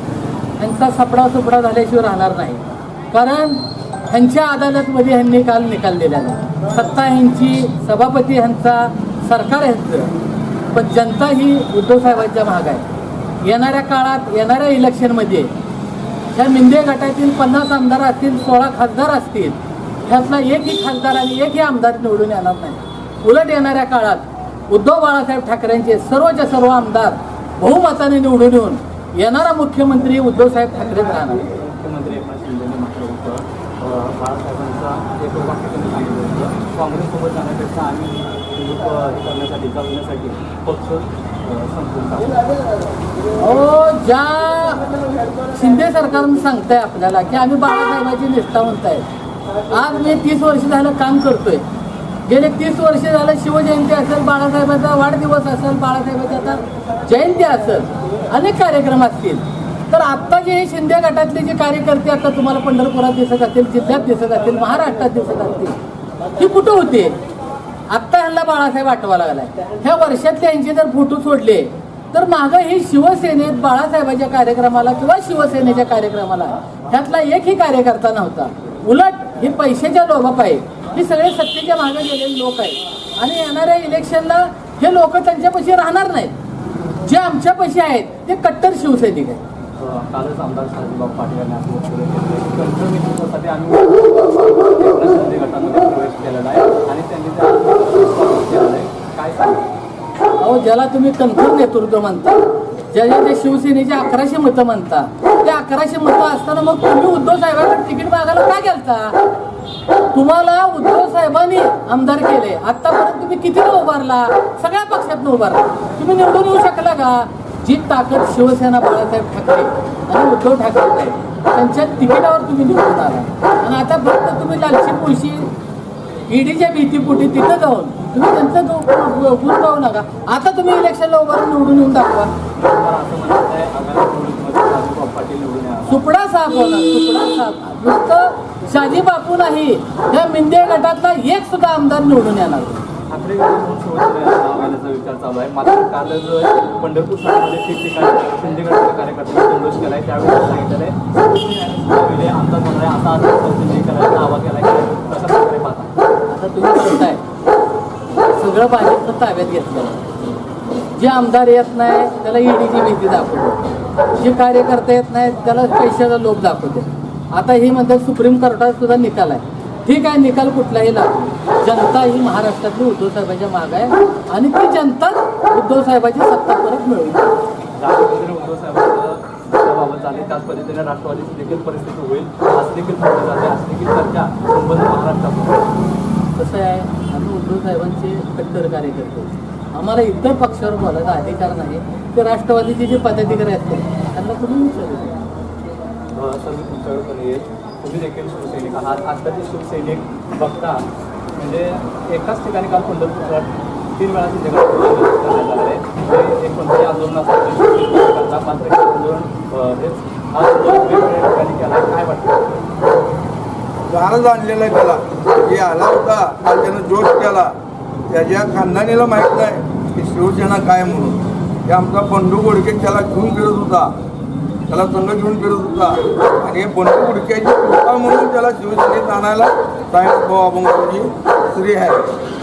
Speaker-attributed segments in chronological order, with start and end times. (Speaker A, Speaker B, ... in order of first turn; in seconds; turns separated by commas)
Speaker A: 0.6-10.1, Speaker A: 10.7-12.8, Speaker A: 13.4-15.5, Speaker A: 16.3-31.4, Speaker B: 31.5-42.4, Speaker A: 43.4-44.9, Speaker A: 45.5-49.0, Speaker A: 49.7-51.6, Speaker A: 52.2-65.8, Speaker A: 66.3-67.2, Speaker A: 67.9-86.3, Speaker A: 87.0-89.4, Speaker B: 89.8-99.7, Speaker A: 100.4-109.2, Speaker A: 110.1-125.5, Speaker A: 126.3-132.3, Speaker B: 132.5-136.0, Speaker A: 135.9-142.8, Speaker B: 143.1-155.9, Speaker A: 156.3-157.2, Speaker A: 158.3-160.0, Speaker A: 160.9-177.3, Speaker B: 177.8-185.6, Speaker A: 186.3-195.2, Speaker B: 196.1-212.6, Speaker C: 213.9-217.5, Speaker C: 218.1-223.9, Speaker C: 224.7-232.0